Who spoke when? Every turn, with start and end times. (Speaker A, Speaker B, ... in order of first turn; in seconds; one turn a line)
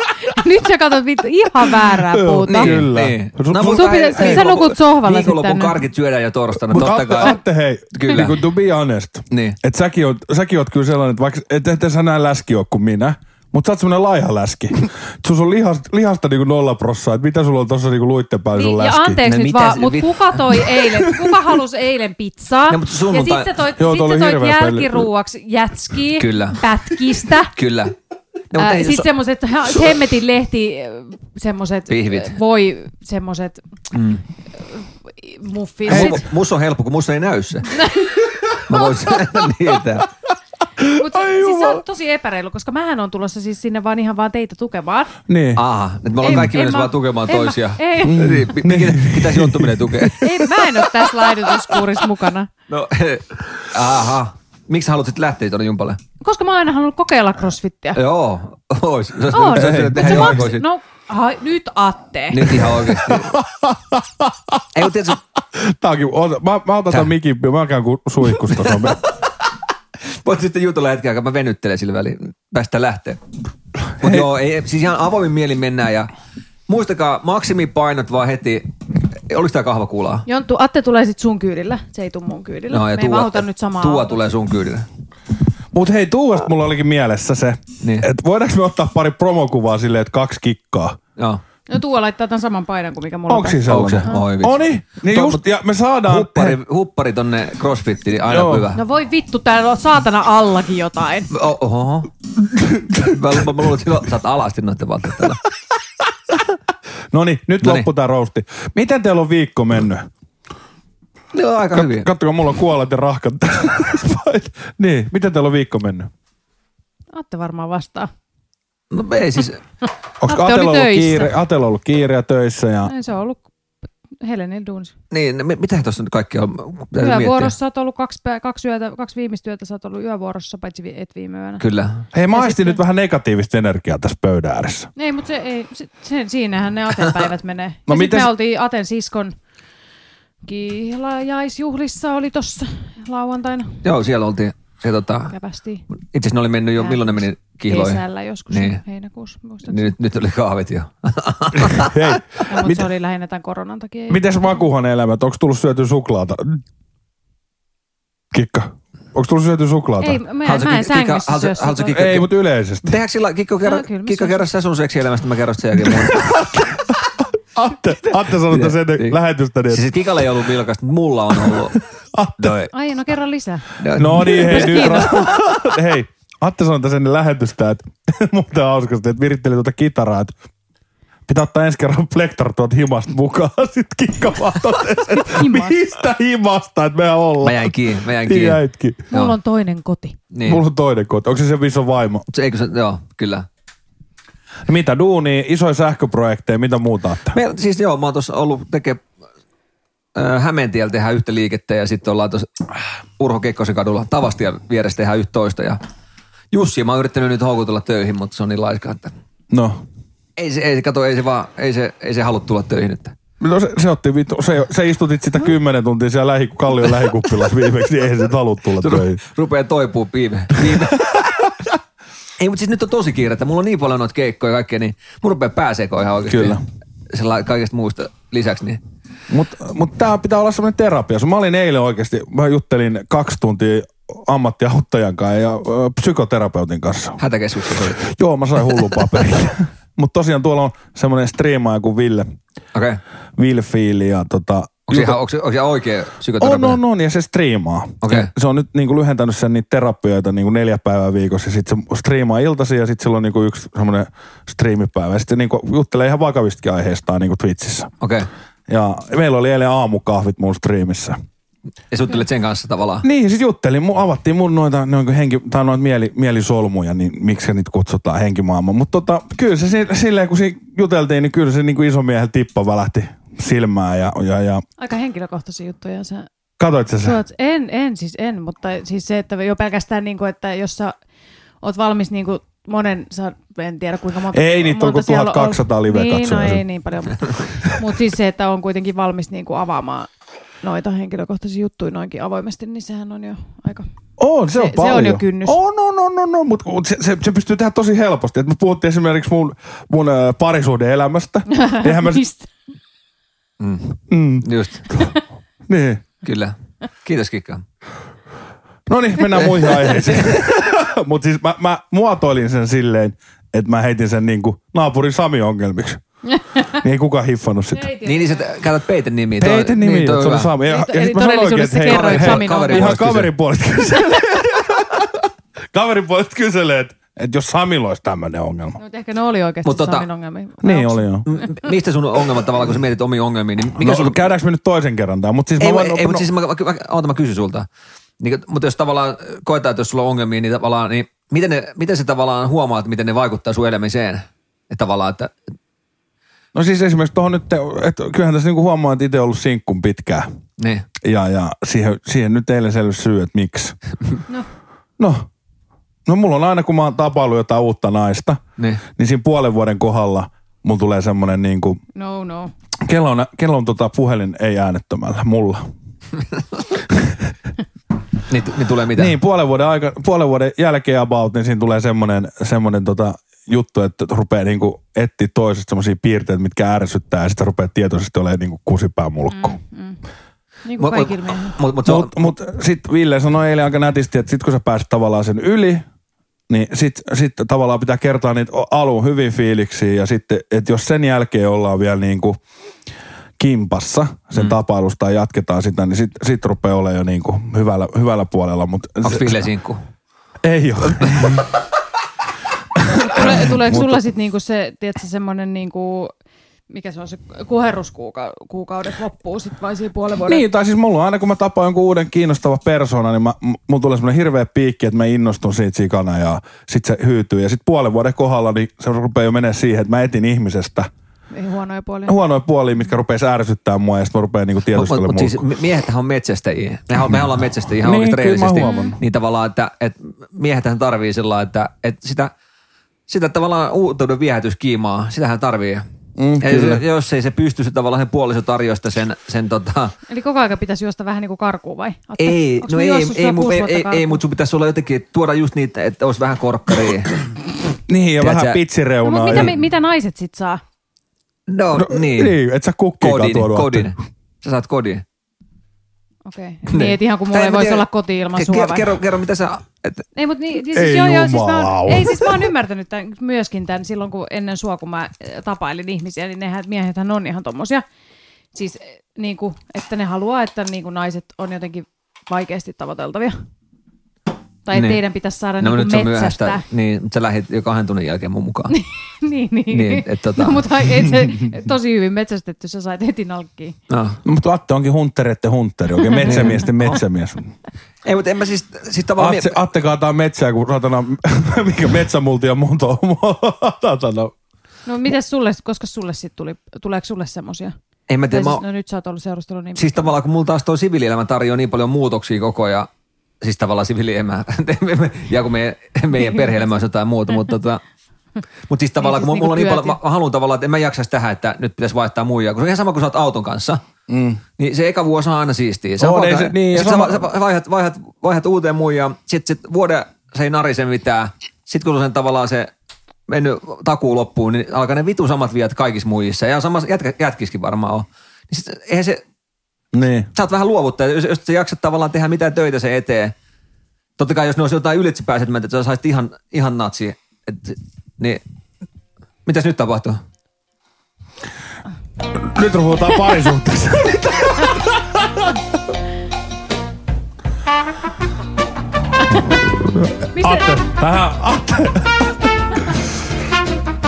Speaker A: 0.2-2.9
Speaker B: 1.9-4.5
Speaker C: 2.5-7.4
Speaker A: 3.6-5.8
Speaker B: 6.7-19.2
Speaker C: 7.9-8.4
Speaker C: 9.3-9.6
Speaker A: 18.5-27.5
Speaker C: 19.2-20.8
Speaker C: 22.7-23.6
Speaker B: 23.8-25.1
Speaker C: 26.1-26.6
Speaker C: 27.5-27.9
Speaker C: 28.5-29.1
Speaker A: 28.6-33.6
Speaker C: 31.9-32.4
Speaker C: 33.9-34.2
Speaker A: 34.6-36.2
Speaker C: 35.9-37.8
Speaker B: 35.9-36.2
Speaker A: 37.7-38.6
Speaker C: 38.6-40.1
Speaker A: 40.8-45.2
Speaker B: 40.8-41.8
Speaker B: 45.3-45.6
Speaker C: 45.5-50.4
Speaker A: 46.2-48.3
Speaker B: 48.0-50.1
Speaker A: 50.1-52.5
Speaker C: 52.7-56.0
Speaker A: 56.2-58.0
Speaker C: 57.9-60.7
Speaker A: 59.3-62.8
Speaker B: 59.5-60.5
Speaker C: 62.3-63.4
Speaker B: 63.0-64.6
Speaker C: 64.7-65.2
Speaker B: 65.5-69.0
Speaker C: 68.4-69.1
Speaker C: 70.2-73.2
Speaker B: 74.0-74.3
Speaker C: 74.0-76.1
Speaker C: 76.7-78.7
Speaker C: 79.3-80.2
Speaker A: 80.3-84.1
Speaker C: 82.7-84.8
Speaker B: 85.7-91.0
Speaker C: 87.8-88.0
Speaker A: 91.7-94.2
Speaker B: 93.3-96.6
Speaker C: 93.7-95.4
Speaker C: 96.0-98.8
Speaker B: 98.2-98.7
Speaker A: 98.8-101.3
Speaker C: 101.3-105.4
Speaker B: 107.1-110.1
Speaker C: 107.6-107.9
Speaker C: 111.3-112.1
Speaker B: 111.7-116.1
Speaker A: 117.1-118.1
Speaker C: 118.9-119.6
Speaker B: 120.2-122.9
Speaker A: 120.2-121.4
Speaker A: 122.8-123.4
Speaker A: 124.2-124.9
Speaker C: 125.1-127.5
Speaker A: 127.0-131.6
Speaker C: 131.6-132.0
Speaker B: 132.1-134.9
Speaker A: 132.3-132.8
Speaker A: 134.9-139.3
Speaker B: 137.9-138.3
Speaker A: 140.4-143.8
Speaker C: 143.8-145.3
Speaker A: 145.3-145.8
Speaker C: 145.9-148.8
Speaker A: 146.8-149.9
Speaker C: 149.7-152.2
Speaker B: 151.7-152.9
Speaker A: 152.5-154.5
Speaker B: 154.1-156.6
Speaker B: 158.3-160.2
Speaker A: 160.0-162.1
Speaker C: 160.4-162.3
Speaker B: 161.9-163.0
Speaker C: 162.8-166.3
Speaker A: 163.6-164.4
Speaker B: 165.8-169.9
Speaker C: 168.4-169.2
Speaker C: 169.7-171.8
Speaker B: 171.4-172.6
Speaker C: 172.4-172.7
Speaker A: 172.7-175.4
Speaker C: 173.8-175.0
Speaker B: 173.9-180.3
Speaker B: 181.3-189.1
Speaker A: 185.1-185.8
Speaker C: 187.4-188.6
Speaker A: 189.1-190.2
Speaker C: 190.3-190.6
Speaker B: 190.4-192.2
Speaker C: 192.3-193.5
Speaker B: 194.7-197.3
Speaker C: 197.3-199.0
Speaker C: 200.1-202.6
Speaker C: 203.2-205.8
Speaker C: 206.5-209.1
Speaker B: 209.5-209.8
Speaker C: 210.4-213.1
Speaker B: 213.4-219.2
Speaker C: 218.8-221.1
Speaker B: 220.6-221.7
Speaker C: 222.4-226.6
Speaker B: 226.3-226.6
Speaker C: 227.1-228.8
Speaker B: 229.3-237.2
Speaker C: 237.2-238.0
Speaker B: 237.8-242.3
Speaker C: 242.7-243.0
Speaker B: 243.4-245.2
Speaker C: 244.9-246.8
Speaker B: 246.4-257.9
Speaker C: 248.0-248.3
Speaker C: 258.0-258.3
Speaker B: 258.7-261.2
Speaker C: 261.9-263.0
Speaker B: 263.0-274.6
Speaker A: 274.8-276.3
Speaker B: 276.6-277.2
Speaker A: 277.0-280.9
Speaker A: 281.6-290.1
Speaker B: 284.3-286.6
Speaker A: 290.6-293.9
Speaker B: 294.2-302.2
Speaker A: 294.5-295.6
Speaker A: 301.5-302.5
Speaker C: 303.6-304.9
Speaker B: 304.1-305.1
Speaker B: 305.7-306.0
Speaker C: 306.2-307.6
Speaker B: 308.9-316.0
Speaker C: 309.4-310.4
Speaker B: 316.6-317.9
Speaker A: 317.7-318.5
Speaker C: 318.0-320.5
Speaker B: 319.4-328.8
Speaker A: 320.6-323.1
Speaker C: 321.9-323.3
Speaker A: 328.8-331.4
Speaker C: 329.6-330.1
Speaker B: 330.6-331.2
Speaker C: 331.2-334.2
Speaker B: 333.8-336.3
Speaker C: 335.6-337.7
Speaker C: 338.2-345.3
Speaker B: 346.5-350.3
Speaker C: 350.6-350.9
Speaker B: 351.0-353.8
Speaker B: 355.0-355.3
Speaker B: 356.1-361.8
Speaker C: 358.6-358.8
Speaker A: 361.9-362.5
Speaker B: 362.9-365.6
Speaker B: 366.9-367.2
Speaker C: 368.3-369.1
Speaker B: 368.9-379.6
Speaker A: 379.3-380.0
Speaker A: 380.6-381.6
Speaker C: 380.8-382.1
Speaker B: 381.8-385.8
Speaker B: 386.5-392.4
Speaker B: 393.4-399.4
Speaker C: 399.0-399.8
Speaker B: 400.4-401.5
Speaker C: 400.9-401.3
Speaker B: 402.8-404.0
Speaker A: 402.9-406.1
Speaker A: 406.7-410.4
Speaker B: 410.2-420.9
Speaker A: 421.3-422.2
Speaker B: 422.1-425.4
Speaker C: 424.7-432.3
Speaker B: 427.8-429.0
Speaker A: 428.6-428.9
Speaker C: 433.1-435.8
Speaker B: 436.2-436.8
Speaker C: 436.4-439.9
Speaker A: 440.1-444.2
Speaker C: 442.2-447.2
Speaker B: 447.9-449.5
Speaker C: 448.2-448.6
Speaker A: 449.0-450.6
Speaker C: 451.5-452.4
Speaker B: 451.7-453.9
Speaker C: 453.0-455.0
Speaker A: 456.2-458.9
Speaker C: 456.7-460.0
Speaker A: 460.1-467.8
Speaker B: 460.7-462.5
Speaker A: 468.5-473.4
Speaker A: 474.6-476.6
Speaker C: 474.7-475.0
Speaker C: 475.6-478.7
Speaker A: 478.7-483.8
Speaker C: 479.7-480.6
Speaker C: 483.9-484.2
Speaker B: 484.2-487.5
Speaker A: 486.0-486.5
Speaker C: 486.2-487.0
Speaker C: 488.0-489.6
Speaker B: 489.2-494.3
Speaker A: 494.9-497.7
Speaker C: 498.1-498.6
Speaker A: 498.3-500.1
Speaker C: 499.7-502.9
Speaker C: 503.4-507.8
Speaker A: 506.2-506.4
Speaker C: 508.7-513.8
Speaker A: 509.0-510.0
Speaker B: 514.1-514.4
Speaker C: 514.6-522.7
Speaker B: 516.0-517.3
Speaker C: 523.3-529.2
Speaker B: 529.9-530.3
Speaker C: 530.3-533.3
Speaker C: 534.2-538.4
Speaker C: 539.5-540.2
Speaker B: 542.4-545.5
Speaker B: 549.3-553.1
Speaker A: 550.3-550.7